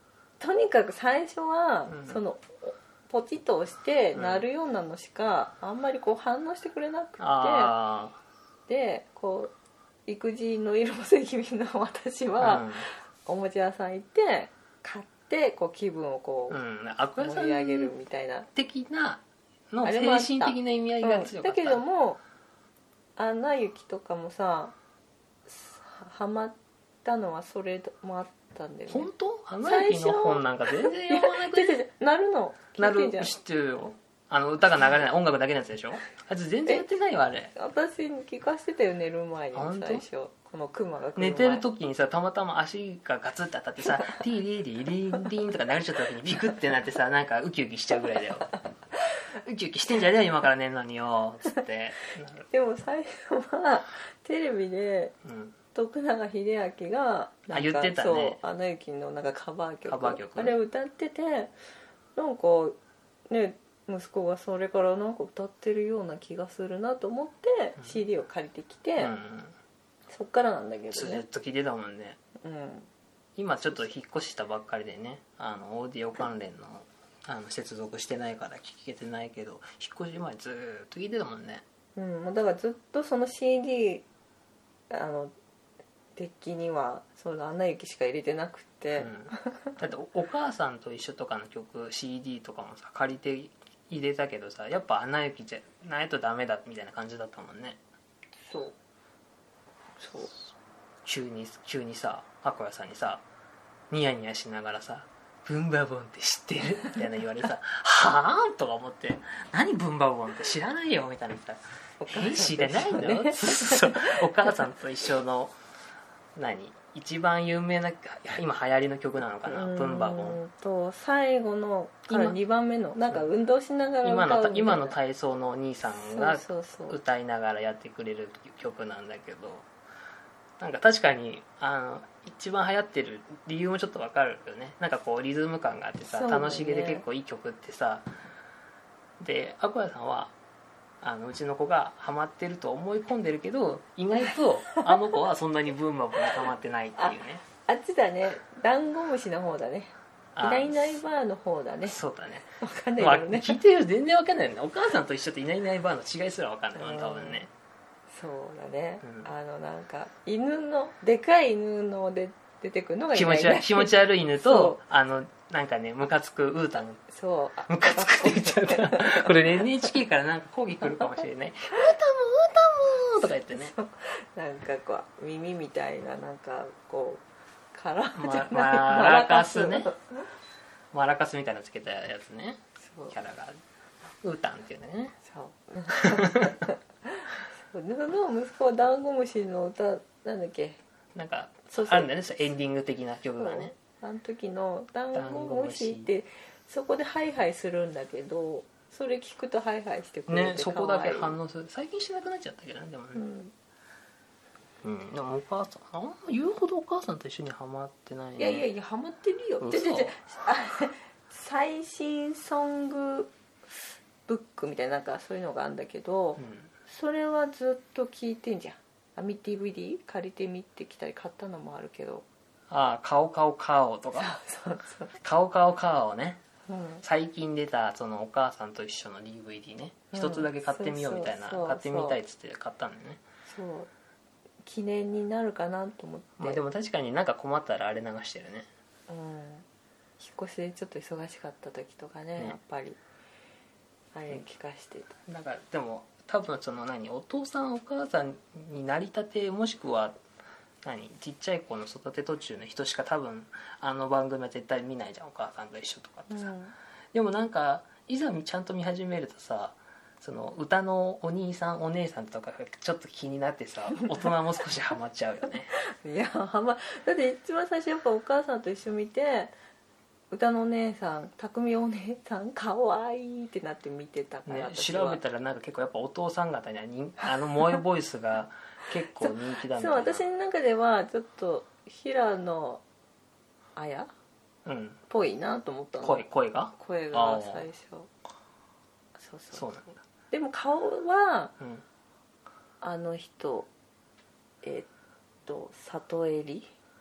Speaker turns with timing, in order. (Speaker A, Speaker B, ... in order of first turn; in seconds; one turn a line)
Speaker A: 0.4-7.7
Speaker B: 1.9-2.2
Speaker B: 4.2-4.5
Speaker B: 7.2-8.2
Speaker A: 8.7-9.5
Speaker A: 10.1-16.6
Speaker B: 12.4-12.9
Speaker B: 16.5-17.9
Speaker A: 17.2-18.5
Speaker B: 18.5-21.8
Speaker A: 19.8-22.2
Speaker A: 23.2-24.8
Speaker A: 25.5-29.1
Speaker B: 28.9-31.8
Speaker A: 29.6-33.3
Speaker B: 32.8-37.5
Speaker A: 37.5-41.6
Speaker B: 39.5-40.0
Speaker B: 41.2-48.5
Speaker B: 49.4-52.5
Speaker A: 52.5-55.1
Speaker B: 55.2-55.6
Speaker A: 55.7-61.5
Speaker B: 57.5-58.4
Speaker B: 59.9-60.6
Speaker A: 62.2-62.8
Speaker A: 63.3-69.1
Speaker B: 69.0-69.5
Speaker A: 70.1-71.2
Speaker B: 70.9-72.2
Speaker A: 72.4-72.9
Speaker B: 73.4-81.6
Speaker A: 82.0-84.1
Speaker A: 84.9-85.3
Speaker A: 86.2-89.7
Speaker B: 89.0-97.8
Speaker A: 98.5-98.8
Speaker A: 100.0-100.3
Speaker B: 101.0-103.2
Speaker B: 103.9-115.6
Speaker A: 112.0-114.2
Speaker B: 116.4-120.4
Speaker A: 119.5-125.0
Speaker B: 122.1-122.4
Speaker B: 124.0-129.7
Speaker A: 126.1-127.0
Speaker B: 130.6-138.1
Speaker A: 136.1-137.0
Speaker B: 139.2-140.3
Speaker B: 141.0-147.4
Speaker A: 147.0-152.0
Speaker B: 150.3-151.0
Speaker B: 151.8-157.5
Speaker A: 152.6-153.6
Speaker A: 156.8-157.4
Speaker A: 158.1-164.8
Speaker B: 159.0-159.3
Speaker B: 163.1-167.0
Speaker A: 167.1-169.7
Speaker B: 167.7-173.7
Speaker A: 173.2-180.2
Speaker B: 178.2-179.9
Speaker B: 180.9-183.6
Speaker A: 182.8-183.2
Speaker B: 184.2-185.2
Speaker A: 185.2-190.8
Speaker B: 185.9-186.6
Speaker B: 191.2-193.7
Speaker A: 191.7-192.1
Speaker A: 193.4-201.4
Speaker B: 195.1-196.1
Speaker B: 200.3-203.2
Speaker A: 203.2-203.5
Speaker B: 204.8-208.7
Speaker A: 208.4-222.2
Speaker B: 209.6-210.2
Speaker B: 216.4-216.7
Speaker B: 222.7-224.3
Speaker A: 224.2-225.2
Speaker B: 225.2-226.4
Speaker A: 226.7-227.0
Speaker B: 227.0-233.2
Speaker A: 230.1-232.2
Speaker A: 233.5-233.9
Speaker A: 234.6-236.6
Speaker B: 236.4-238.7
Speaker A: 239.1-239.7
Speaker A: 240.2-243.0
Speaker A: 244.1-245.2
Speaker B: 245.3-250.2
Speaker B: 250.8-256.5
Speaker A: 256.3-256.8
Speaker B: 257.1-265.7
Speaker A: 265.8-269.5
Speaker A: 270.3-275.2
Speaker B: 274.5-280.2
Speaker A: 279.2-282.8
Speaker A: 283.8-284.1
Speaker B: 284.6-285.0
Speaker A: 285.1-288.1
Speaker B: 286.0-287.7
Speaker A: 289.2-289.7
Speaker B: 289.5-289.9
Speaker A: 290.3-291.5
Speaker A: 292.8-293.7
Speaker A: 294.6-294.9
Speaker A: 295.5-296.7